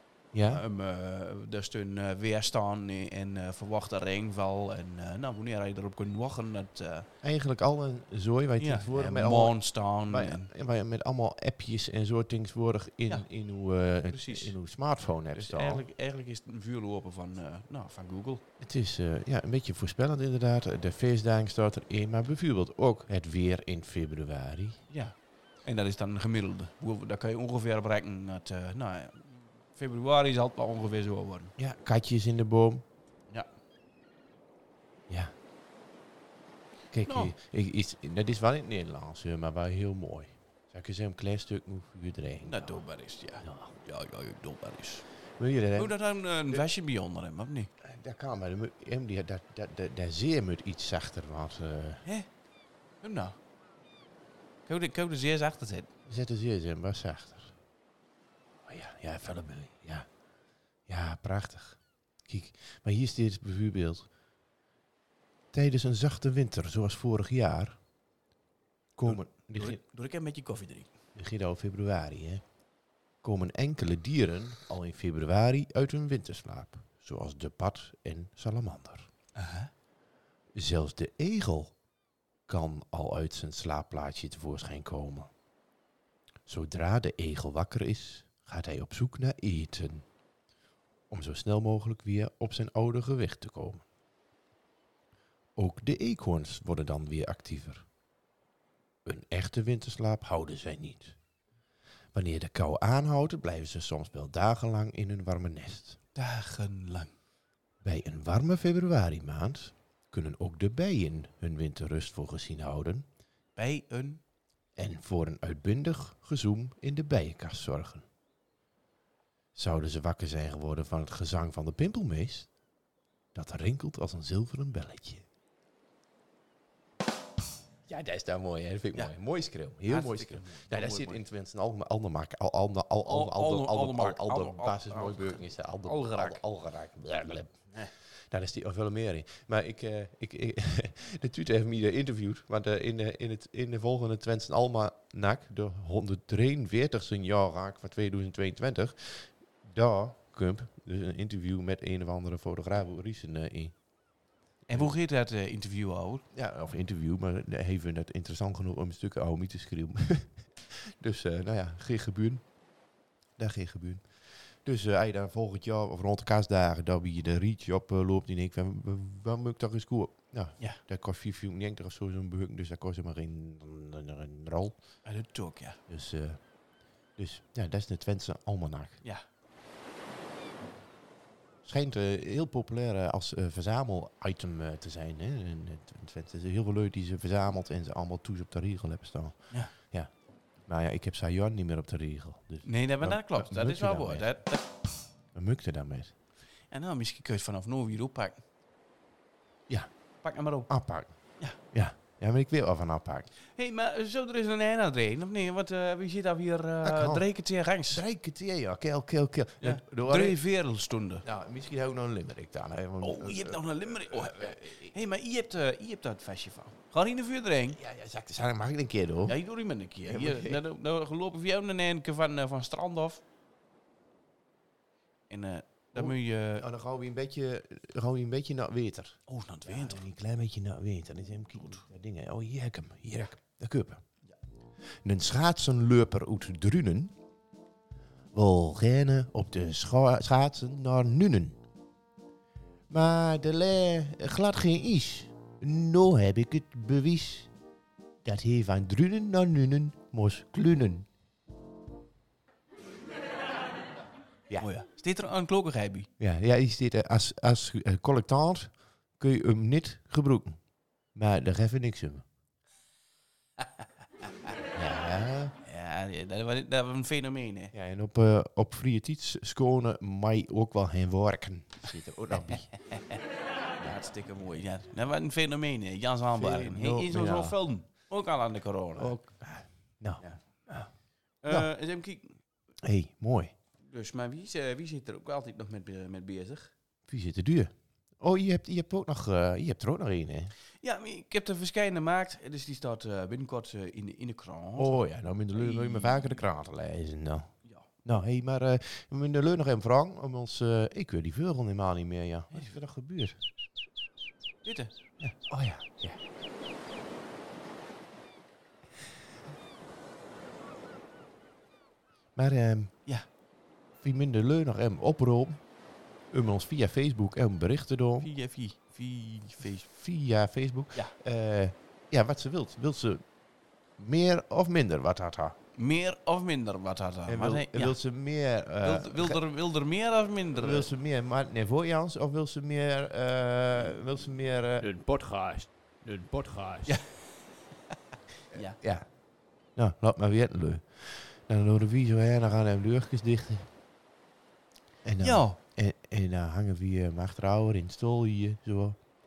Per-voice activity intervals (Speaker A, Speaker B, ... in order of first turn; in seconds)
Speaker A: 0.3-0.6, 7.2-15.8, 18.6-24.8, 31.6-32.8, 35.1-35.3, 36.9-42.8, 43.4-43.7, 45.4-45.9, 47.8-52.0, 56.0-57.5, 58.6-60.1, 60.9-64.1, 65.5-67.8, 69.0-69.8, 71.2-72.4, 73.2-79.1, 80.5-81.7, 82.5-85.3, 86.5-90.0, 91.1-93.8, 95.5-97.8, 99.0-101.2, 102.1-106.0, 107.8-113.1, 114.8-118.0, 119.5-122.5, 123.3-125.2, 127.9-137.6, 138.3-153.7, 156.3-162.4, 163.4-164.1, 164.6-174.8, 175.9-176.4, 177.2-179.0, 181.6-190.1, 190.7-194.3, 195.3-196.1, 200.7-201.1, 201.7-203.3, 206.8-207.2, 207.9-210.4, 211.2-214.9, 217.7-219.4, 220.0-220.6, 225.9-234.0, 235.0-237.1, 238.3-241.6, 242.9-247.5, 248.2-251.1, 256.2-260.6, 261.1-262.2, 264.7-265.6, 267.7-272.7, 276.4-277.6, 279.0-280.9, 282.8-283.5, 287.1-290.5, 294.8-297.5, 298.0-303.4, 305.2-306.2, 312.4-312.9, 314.0-315.6, 316.3-318.3, 319.8-323.2, 324.0-325.6, 327.3-329.4, 330.5-334.9, 338.8-339.1, 339.8-343.7, 345.0-349.0
Speaker B: 0.5-7.1, 8.6-10.5, 14.1-14.5, 15.3-18.4, 24.9-31.5, 37.0-37.3, 42.4-45.0, 45.8-47.7, 53.0-53.3, 54.6-55.9, 69.0-70.9, 79.3-79.7, 106.2-107.1, 113.5-114.2, 129.8-131.2, 133.1-136.4, 154.7-156.2, 175.0-175.8, 192.6-194.6, 196.7-198.4, 200.2-200.7, 203.5-208.0, 209.6-211.2, 213.0-217.8, 219.2-223.2, 225.3-226.6, 229.3-230.0, 254.6-256.1, 265.6-267.7, 272.5-273.2, 273.8-279.2, 281.4-282.4, 283.8-286.7, 290.8-296.4, 304.6-304.9, 318.2-319.8, 325.8-328.0, 328.8-330.9, 336.9-337.4, 338.5-338.8, 345.2-345.6
Speaker C: 334.8-337.0